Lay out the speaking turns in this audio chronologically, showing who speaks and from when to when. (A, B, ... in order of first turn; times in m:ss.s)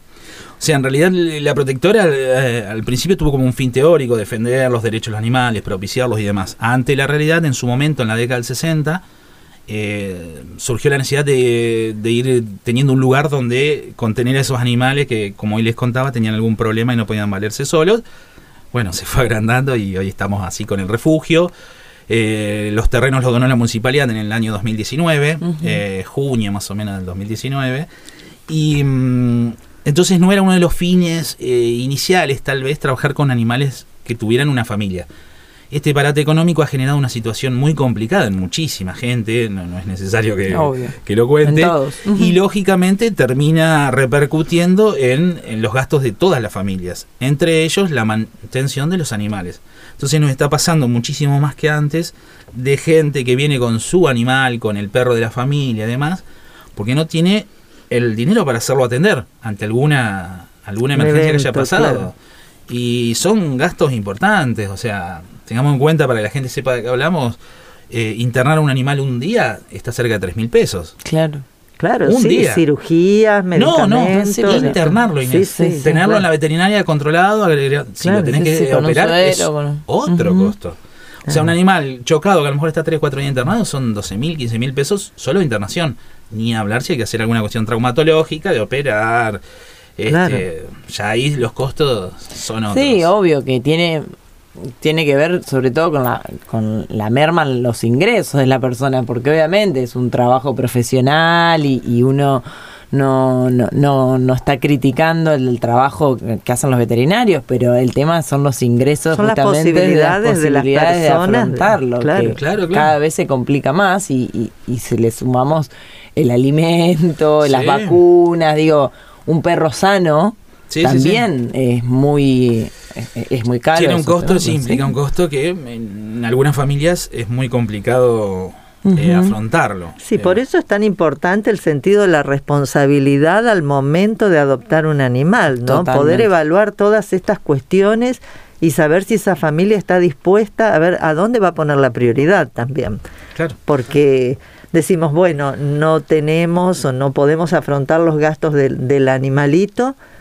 0:00.6-0:09.0 A
0:09.7-0:18.0 A
0:18.7-0:21.5 A
0:22.1-0:27.9 A
0:25.4-0:25.8 B
0:28.5-0:35.1 A
0:35.7-0:56.2 A
0:40.5-0:42.3 B
0:56.8-1:02.1 A
1:00.9-1:02.1 C
1:02.7-1:07.4 A
1:07.9-1:10.9 A
1:11.0-1:11.4 B
1:11.8-1:16.2 C
1:12.0-1:12.6 A
1:13.5-1:20.8 A
1:14.2-1:14.8 B
1:15.5-1:15.8 B
1:18.0-1:18.4 C
1:18.3-1:20.5 B
1:21.3-1:29.4 A
1:30.0-1:33.1 A
1:30.1-1:30.4 C
1:32.7-1:34.1 B
1:34.8-2:04.9 B
1:49.1-1:52.4 C
1:52.4-1:52.9 A
1:57.4-1:58.0 A
2:00.7-2:01.2 A
2:03.7-2:10.4 A
2:08.8-2:09.3 B
2:10.0-2:23.0 C
2:15.6-2:16.3 B
2:23.7-2:30.0 C